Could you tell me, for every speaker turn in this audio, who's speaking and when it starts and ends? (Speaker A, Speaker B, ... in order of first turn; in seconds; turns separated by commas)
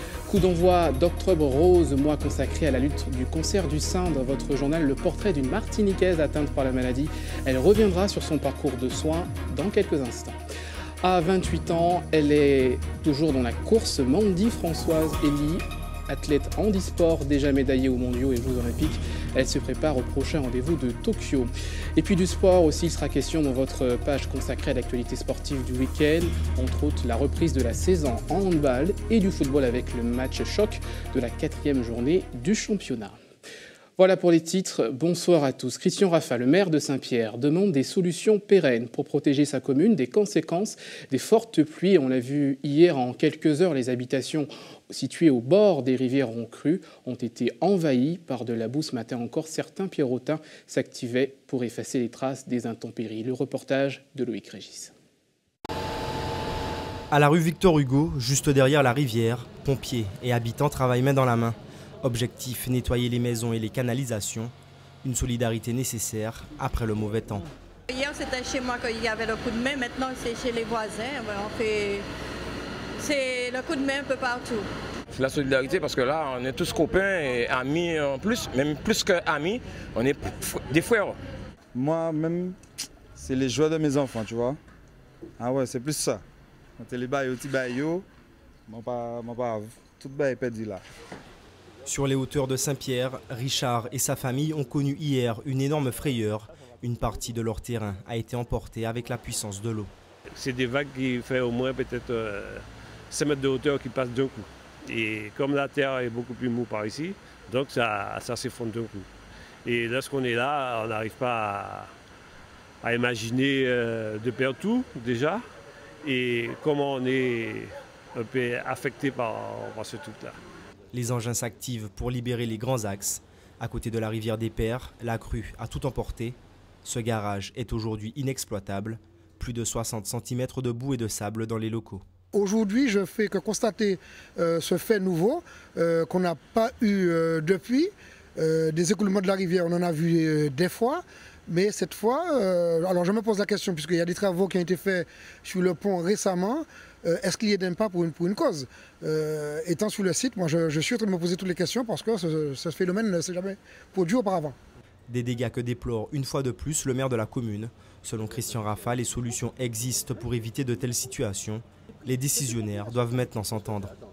Speaker A: 0.3-10.4, Speaker A: 11.0-33.2, Speaker A: 34.0-54.9, Speaker B: 57.1-67.5, Speaker C: 67.9-72.0, Speaker C: 73.0-74.7, Speaker D: 75.1-81.2, Speaker E: 81.7-82.5, Speaker E: 83.2-84.6, Speaker E: 85.4-86.2, Speaker E: 86.8-88.0, Speaker E: 88.7-90.8, Speaker B: 91.8-99.9, Speaker F: 100.3-109.1, Speaker F: 109.6-111.9, Speaker F: 112.8-115.4, Speaker F: 116.0-120.4, Speaker B: 120.9-132.0, Speaker G: 132.3-154.5, Speaker B: 155.1-163.9